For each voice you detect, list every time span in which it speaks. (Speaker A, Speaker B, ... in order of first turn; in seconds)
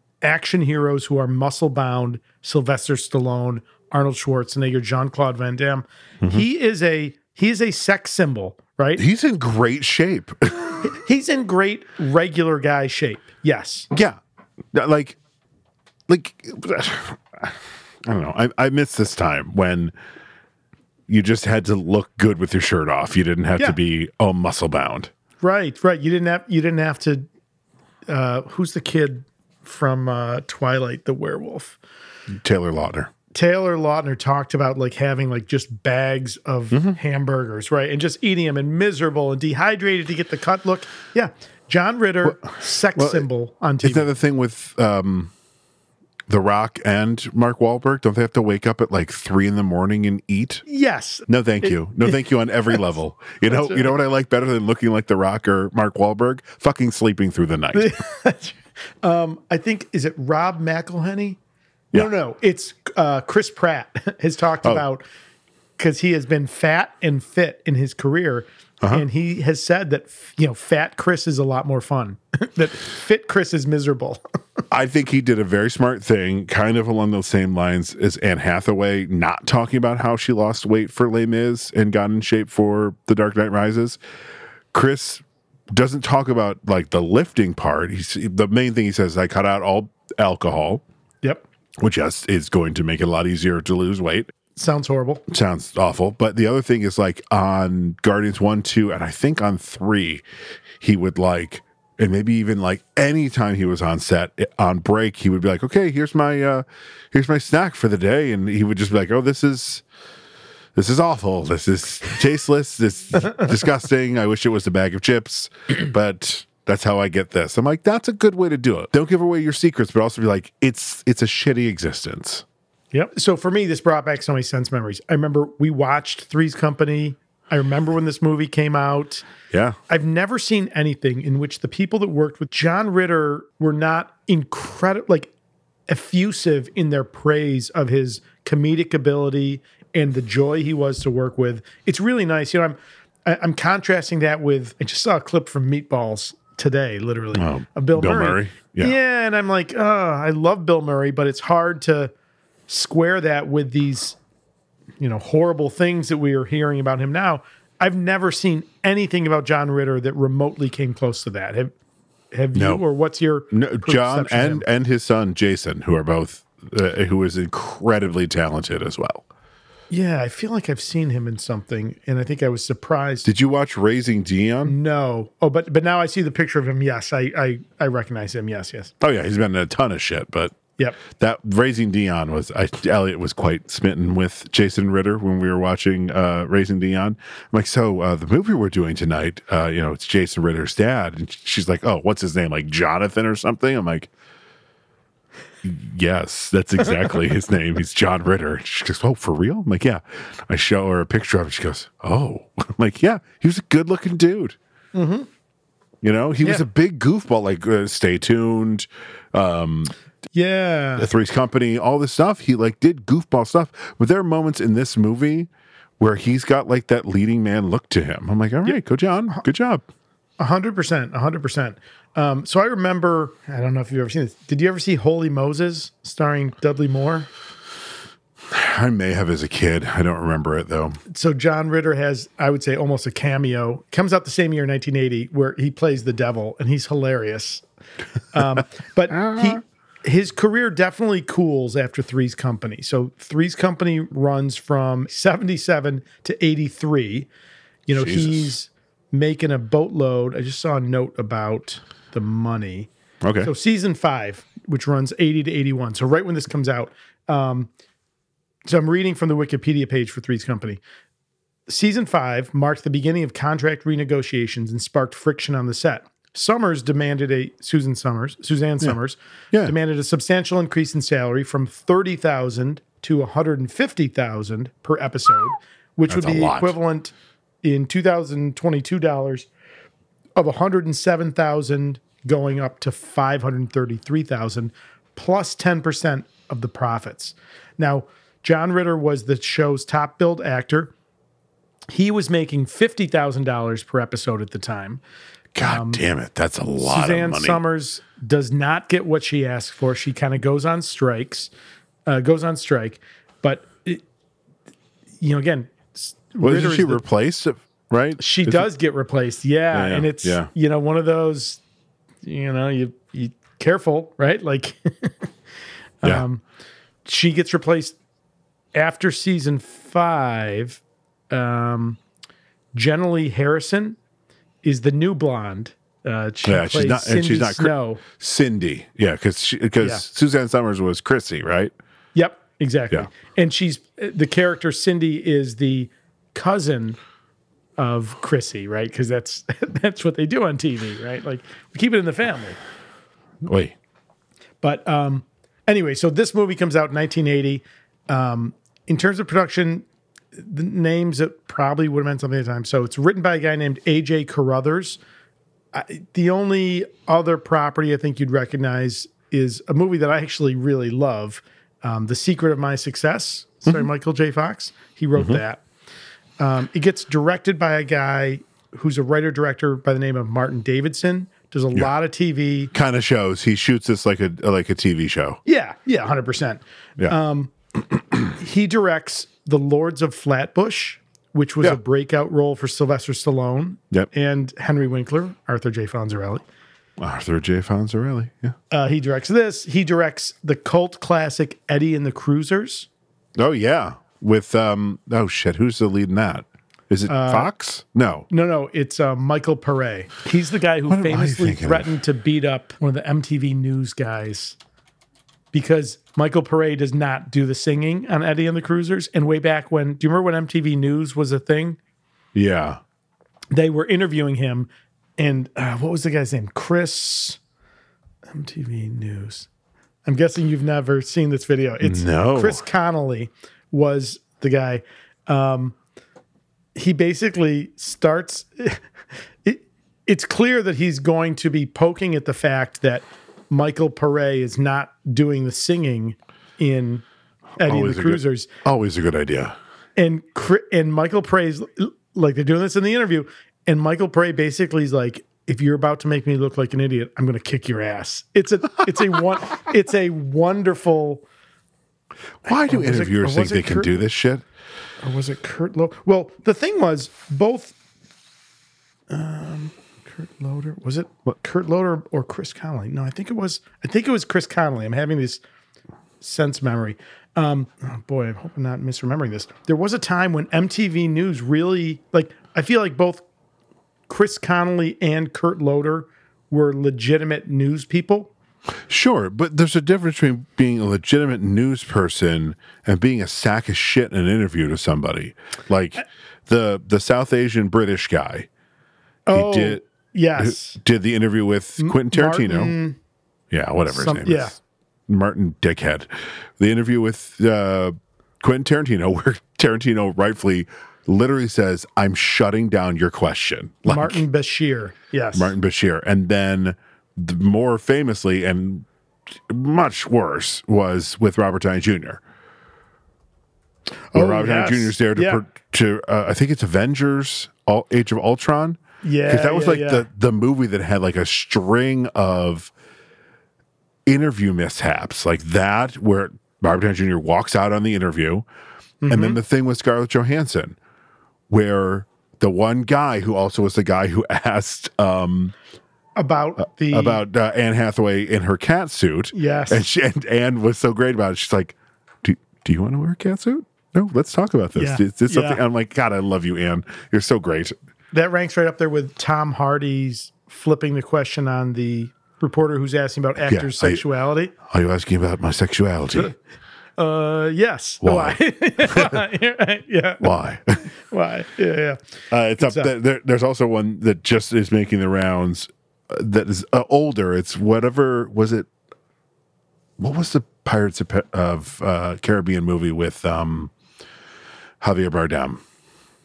Speaker A: 0.2-9.0, 10.8-13.9, 25.4-27.3, 28.1-31.8, 33.3-44.1, 50.6-52.2, 53.5-53.9, 57.7-61.4, 61.9-65.0, 65.8-74.2, 94.5-95.2, 122.9-129.2, 129.9-135.3, 135.9-152.1, 152.7-154.2, 155.0-161.7, 162.3-164.6, 169.9-173.3, 174.6-178.9, 204.9-205.3, 210.3-211.1, 220.4-227.3, 231.1-237.6, 238.3-247.3, 247.9-252.9, 253.4-257.7, 258.6-260.8, 261.7-279.5, 280.4-290.9, 291.9-295.0, 295.6-296.0, 296.8-301.5, 302.1-304.0, 305.2-307.0, 308.2-311.6, 312.2-315.3, 316.0-316.4, 317.0-318.0, 318.8-322.0, 322.7-324.0, 324.6-328.0, 332.1-337.0, 337.8-342.6, 344.6-355.0, 355.7-365.6, 366.4-372.7, 375.5-377.5, 378.4-386.4, 388.7-392.9, 397.1-397.5, 398.3-404.6, 405.5-411.8, 413.5-417.4, 418.3-419.5, 420.1-425.8, 426.8-428.8, 429.4-437.0, 437.6-438.5, 440.0-451.2, 452.6-453.9, 455.0-457.8, 459.1-465.4, 466.2-473.2, 474.1-478.3, 489.3-490.8, 491.8-493.0, 493.9-494.6, 503.9-505.5, 514.1-515.4, 519.0-520.0, 529.0-529.4, 536.2-537.2, 539.3-539.8, 544.8-545.6, 548.1-554.5, 557.0-560.3, 561.0-562.0, 562.6-562.9
Speaker B: 8.9-10.9, 13.9-14.2, 14.7-15.2, 16.1-19.9, 21.1-25.1, 32.3-33.1, 36.7-37.0, 42.2-43.3, 43.8-45.3, 46.3-50.6, 51.3-58.0, 68.8-69.0, 74.7-84.0, 84.7-90.8, 91.8-94.3, 95.3-100.2, 100.8-109.8, 110.8-122.5, 129.5-129.8, 147.3-149.0, 162.5-162.8, 163.5-169.2, 173.2-174.8, 179.0-180.5, 181.1-194.1, 195.6-204.6, 206.0-209.9, 211.0-215.5, 216.0-219.8, 228.5-231.0, 239.1-239.6, 247.9-248.6, 253.2-253.5, 276.1-276.8, 295.5-297.6, 306.4-308.7, 309.7-310.5, 326.4-331.7, 343.4-343.8, 365.2-365.4, 372.7-375.4, 377.8-378.3, 387.0-388.5, 393.4-398.3, 400.9-401.9, 412.3-412.8, 421.8-422.6, 437.6-439.6, 452.4-454.4, 478.9-488.5, 489.3-489.8, 490.4-492.8, 493.5-494.6, 495.1-504.2, 505.3-508.9, 509.5-512.2, 514.1-522.7, 524.0-528.5, 529.1-530.8, 531.5-535.5, 536.6-547.8, 553.4-554.0, 554.6-556.3, 558.0-559.2, 560.2-560.8, 562.3-568.7, 570.0-573.7, 574.8-575.6